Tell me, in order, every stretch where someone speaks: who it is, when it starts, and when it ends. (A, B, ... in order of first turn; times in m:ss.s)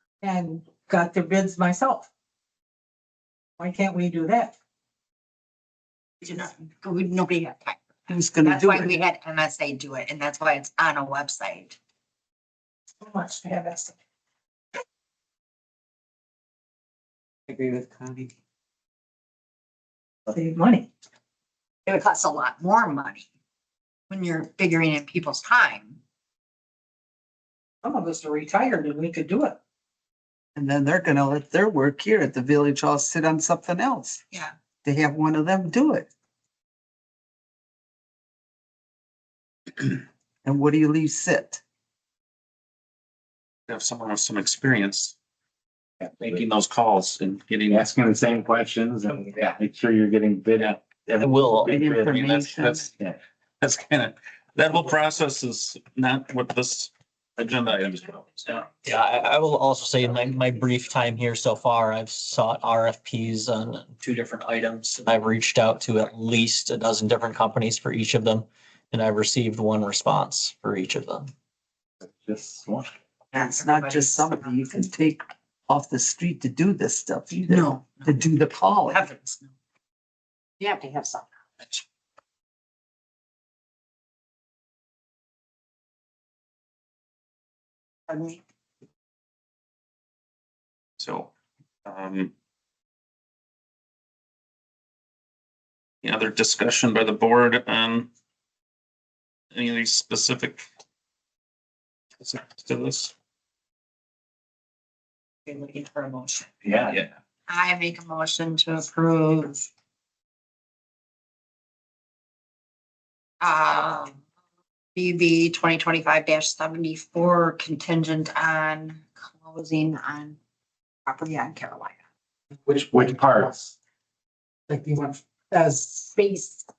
0:00.2-0:02.1 A
0:03.6-0:04.5 A
0:06.2-0:07.8 B
0:08.1-0:08.9 C
0:08.4-0:11.8 B
0:13.0-0:13.9 A
0:20.3-0:20.9 A
0:21.8-0:23.2 B
0:24.1-0:26.0 B
0:27.8-0:29.6 A
0:30.5-0:34.2 C
0:34.8-0:36.1 C
0:40.4-0:41.6 C
0:43.7-0:45.1 D
0:46.1-0:47.9 D
0:47.7-0:52.0 E
0:51.0-0:52.9 C
0:51.2-0:51.8 F
0:51.9-0:52.9 D
0:53.6-0:58.7 D
0:58.6-1:11.3 F
1:13.3-1:14.4 B
1:13.4-1:19.0 C
1:17.5-1:18.2 B
1:18.9-1:19.5 B
1:20.6-1:21.8 B
1:28.1-1:28.4 B
1:31.0-1:31.3 D
1:31.8-1:32.3 D
1:36.0-1:38.1 D
1:39.5-1:40.6 D
1:42.2-1:43.1 D
1:45.4-1:46.5 B
1:47.5-1:49.7 B
1:53.4-1:54.2 B
1:54.9-2:00.4 B
2:01.0-2:01.9 B
2:02.7-2:03.5 G
2:02.9-2:03.5 E
2:04.7-2:06.0 G
2:06.1-2:06.6 B